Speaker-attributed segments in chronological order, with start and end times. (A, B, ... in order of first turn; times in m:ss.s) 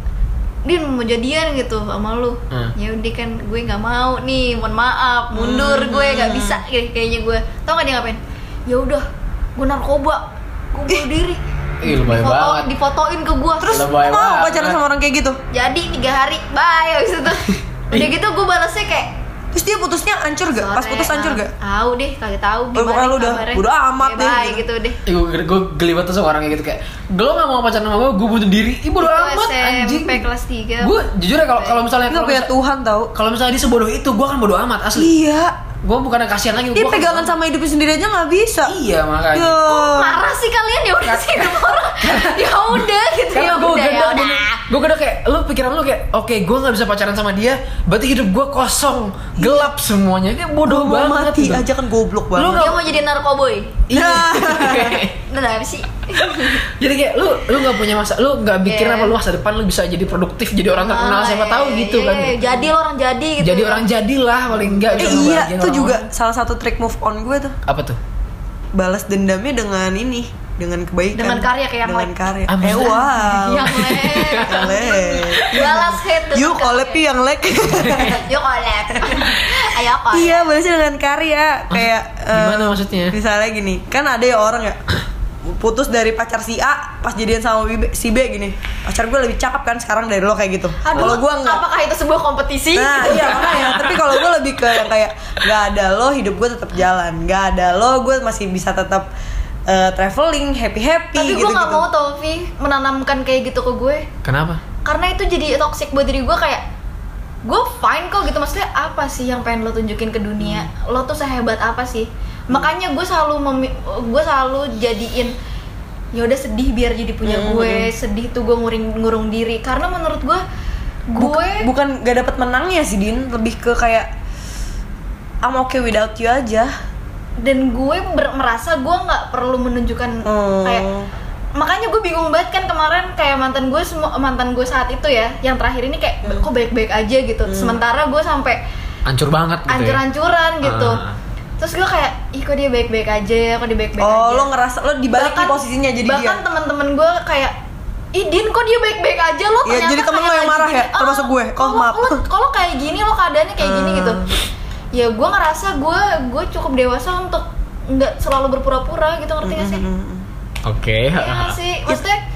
0:00.7-0:13.9 A
0:05.3-0:06.6 B
0:11.8-0:12.7 C
0:13.6-0:14.8 C
0:13.7-0:15.4 B
0:15.5-0:19.1 A
0:17.5-0:18.1 C
0:19.5-0:21.5 B
0:20.5-0:25.0 A
0:22.8-0:24.6 B
0:25.1-0:30.2 C
0:29.0-0:31.0 A
0:30.8-0:32.5 C
0:32.1-0:33.1 B
0:33.2-0:35.1 C
0:35.0-0:35.5 B
0:35.8-0:37.3 C
0:36.8-0:38.8 B
0:38.6-0:39.6 C
0:39.3-0:40.2 B
0:39.6-0:44.6 A
0:41.0-0:51.6 C
0:50.7-0:52.9 B
0:52.4-0:52.8 C
0:52.4-0:53.8 A
0:53.9-0:55.2 C
0:53.9-0:55.0 B
0:55.3-0:56.6 A
0:56.2-1:02.7 C
0:58.6-0:59.2 A
1:00.8-1:03.8 A
1:03.4-1:06.1 C
1:04.8-1:05.5 A
1:05.0-1:07.6 B
1:07.6-1:08.0 C
1:08.8-1:18.2 B
1:11.1-1:12.1 A
1:12.5-1:15.7 C
1:12.8-1:17.0 A
1:17.7-1:18.2 C
1:18.1-1:20.5 A
1:18.9-1:19.4 B
1:20.1-1:24.8 B
1:21.7-1:23.2 C
1:25.4-1:31.6 B
1:30.8-1:33.9 A
1:32.8-1:39.1 B
1:33.4-1:34.2 C
1:39.7-1:41.9 B
1:41.2-1:44.1 A
1:44.2-1:44.6 C
1:44.8-1:46.6 A
1:47.5-1:55.3 A
1:50.4-1:50.7 B
1:56.1-2:00.4 A
1:57.2-1:57.9 B
2:01.1-2:01.7 A
2:01.2-2:04.1 B
2:05.4-2:06.7 B
2:07.4-2:10.8 A
2:10.2-2:11.1 B
2:11.6-2:18.6 A
2:17.5-2:17.8 B
2:19.1-2:20.0 C
2:19.7-2:21.0 A
2:20.6-2:21.2 C
2:21.6-2:24.5 A
2:24.0-2:26.4 B
2:25.1-2:27.5 A
2:28.1-2:34.2 A
2:29.6-2:32.2 B
2:33.6-2:34.4 B
2:34.9-2:39.8 A
2:39.4-2:40.3 B
2:40.6-2:41.6 C
2:41.2-2:42.2 A